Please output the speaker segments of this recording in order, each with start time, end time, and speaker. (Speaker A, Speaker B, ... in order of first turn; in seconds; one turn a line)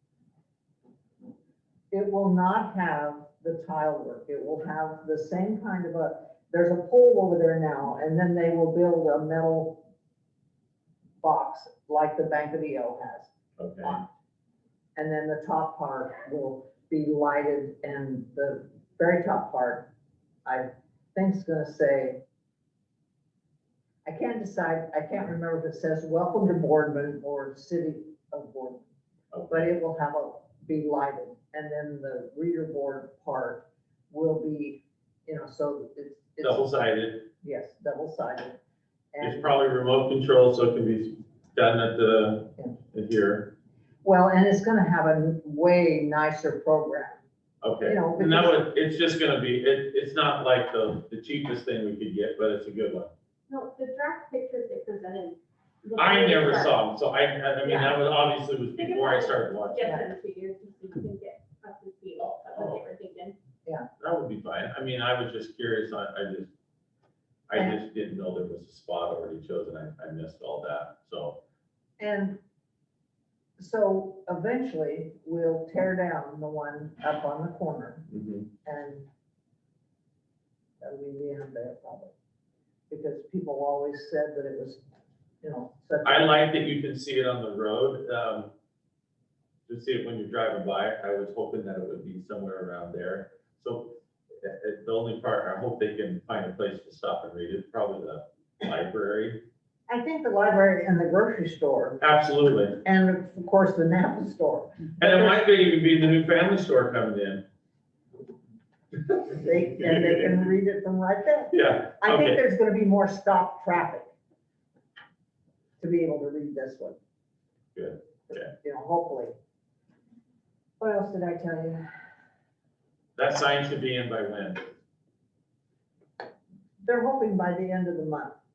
Speaker A: 1.9-9.9
Speaker A: 11.2-13.3
Speaker B: 13.6-14.0
Speaker A: 15.0-19.9
Speaker A: 20.4-22.2
Speaker A: 24.1-28.9
Speaker B: 29.3-29.7
Speaker A: 29.5-36.7
Speaker B: 36.4-37.3
Speaker A: 37.4-38.6
Speaker A: 39.1-39.6
Speaker B: 39.2-43.5
Speaker A: 44.0-47.2
Speaker B: 47.6-53.1
Speaker A: 47.8-48.6
Speaker C: 53.5-56.7
Speaker B: 56.0-59.9
Speaker A: 57.6-58.0
Speaker C: 58.8-63.4
Speaker B: 62.2-62.8
Speaker B: 64.0-66.5
Speaker B: 67.5-71.4
Speaker A: 72.0-72.4
Speaker A: 73.6-78.1
Speaker B: 78.1-78.5
Speaker A: 78.6-79.0
Speaker A: 80.8-82.1
Speaker A: 82.9-84.8
Speaker A: 85.4-86.4
Speaker B: 86.0-88.5
Speaker B: 89.7-99.4
Speaker A: 99.9-102.0
Speaker B: 102.0-102.8
Speaker A: 102.8-105.5
Speaker B: 105.0-107.5
Speaker A: 109.3-114.1
Speaker B: 109.9-110.3
Speaker B: 111.5-112.4
Speaker A: 115.8-117.0
Speaker B: 117.8-118.5
Speaker A: 118.3-119.3
Speaker A: 120.8-121.8
Speaker B: 123.2-124.7
Speaker A: 126.8-128.4